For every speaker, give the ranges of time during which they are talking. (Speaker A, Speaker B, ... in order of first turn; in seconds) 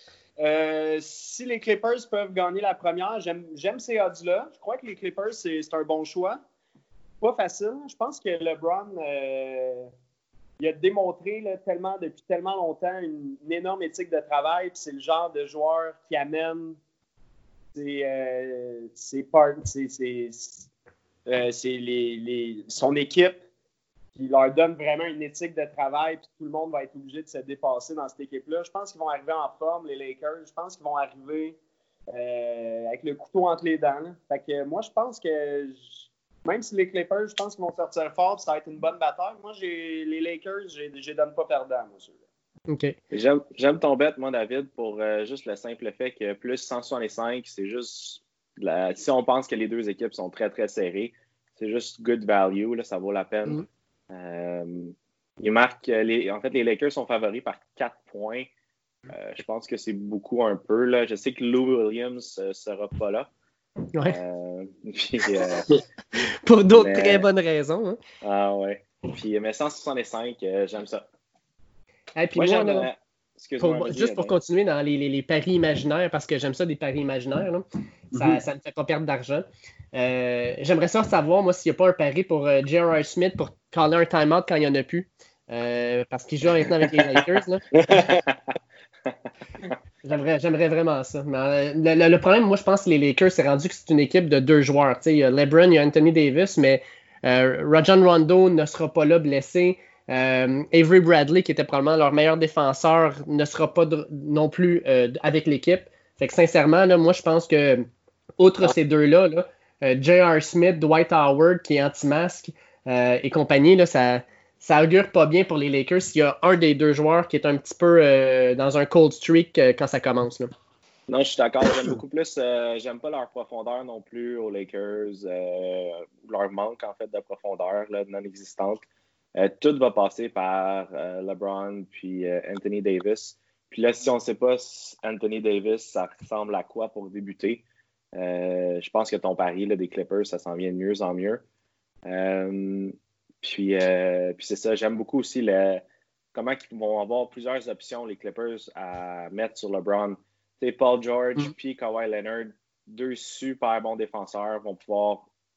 Speaker A: 0.4-6.4, 7.2-9.9, 10.6-16.8, 17.7-20.7, 21.3-23.4, 24.2-31.6, 32.1-42.2, 87.7-88.2
Speaker B: 42.7-43.0, 66.2-68.0, 72.2-72.9, 73.6-87.6, 90.0-107.9, 108.4-120.5
Speaker C: 43.1-58.5, 59.1-63.3, 64.1-65.7, 66.8-67.2, 68.2-71.0, 72.3-74.3, 88.1-88.4, 121.1-128.8, 129.3-141.4, 142.1-155.3